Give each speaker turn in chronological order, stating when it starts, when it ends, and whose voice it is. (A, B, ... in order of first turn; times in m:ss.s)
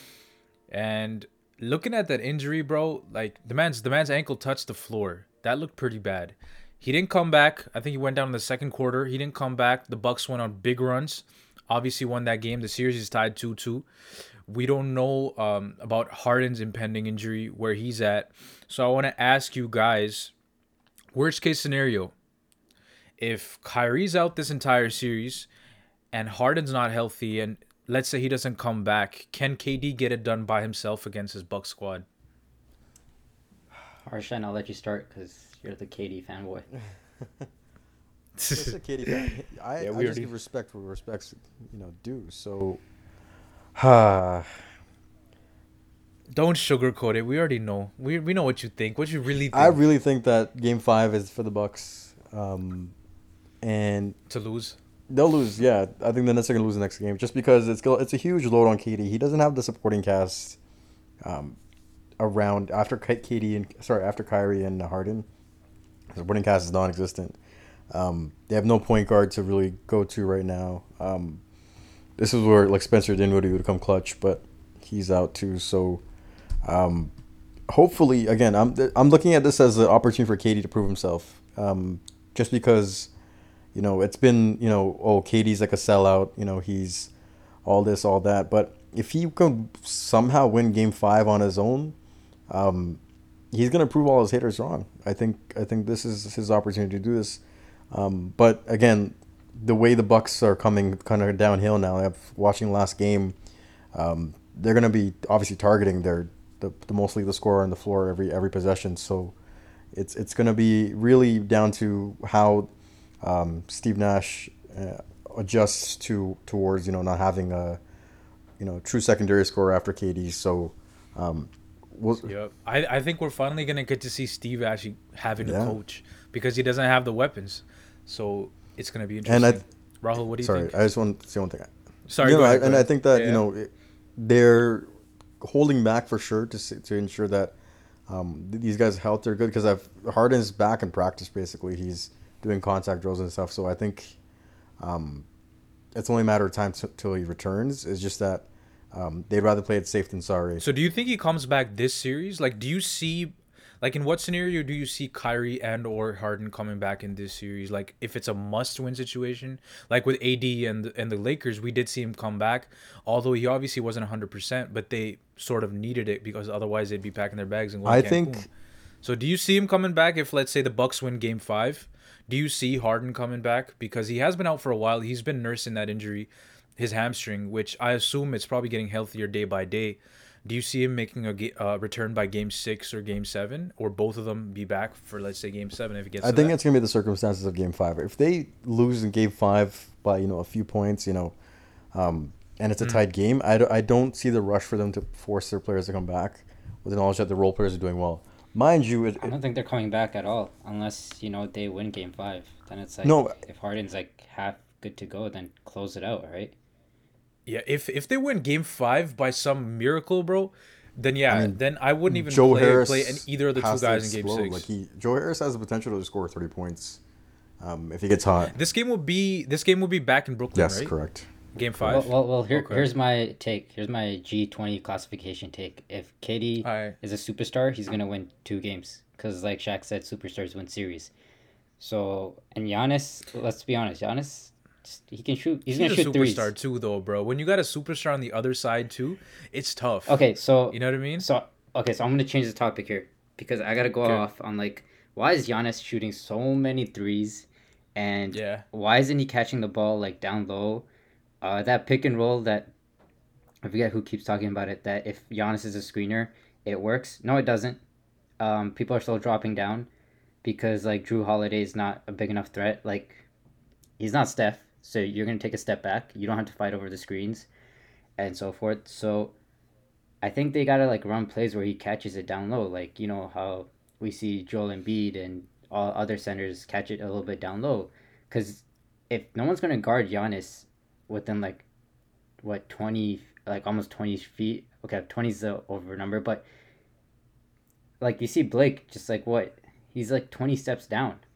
0:00.7-0:13.9 A
0:14.5-0:20.3 A
0:21.1-0:22.1 A
0:23.2-0:25.5 A
0:26.1-0:32.0 A
0:34.0-0:36.7 B
0:38.4-0:40.3 A
0:38.5-0:42.8 C
0:43.7-0:44.5 C
0:46.3-0:49.8 A
0:49.5-0:52.9 C
0:53.6-0:54.1 C
0:54.3-0:54.8 A
0:55.1-1:00.6 C
1:01.2-1:01.6 C
1:02.2-1:05.2 C
1:06.1-1:07.4 C
1:07.9-1:11.4 C
1:12.2-1:16.0 C
1:16.6-1:17.1 C
1:17.7-1:23.1 C
1:23.7-1:27.1 C
1:27.6-1:32.0 C
1:32.5-1:33.0 C
1:33.5-1:37.4 C
1:37.9-1:43.3 C
1:43.9-1:49.3 C
1:49.9-1:52.7 C
1:53.2-1:57.8 C
1:58.6-2:02.3 C
2:02.2-2:10.7 A
2:05.4-2:05.8 C
2:09.2-2:09.6 C
2:10.4-2:14.8 C
2:12.1-2:13.4 A
2:15.4-2:17.5 C
2:18.1-2:24.2 C
2:24.8-2:25.2 C
2:25.9-2:30.6 C
2:30.6-2:48.5 A
2:47.8-2:48.4 C
2:49.0-3:06.6 A
3:06.2-3:11.3 C
3:11.9-3:19.3 C
3:19.2-3:26.5 B
3:23.0-3:23.4 C
3:27.4-3:34.7 A
3:31.3-3:37.0 C
3:37.6-3:38.5 C
3:38.5-3:40.9 A
3:40.5-3:42.1 C
3:41.5-3:42.9 A
3:41.9-3:51.1 B
3:46.6-3:47.0 A
3:51.8-3:56.5 B
3:55.7-4:01.2 A
4:00.1-4:10.8 B
4:08.3-4:08.6 A
4:11.4-4:12.7 B
4:13.6-4:17.8 B
4:18.4-4:19.9 B
4:20.4-4:23.2 B
4:24.0-4:27.5 B
4:28.2-4:29.3 B
4:30.2-4:41.6 B
4:42.4-4:46.4 B
4:48.0-4:51.2 B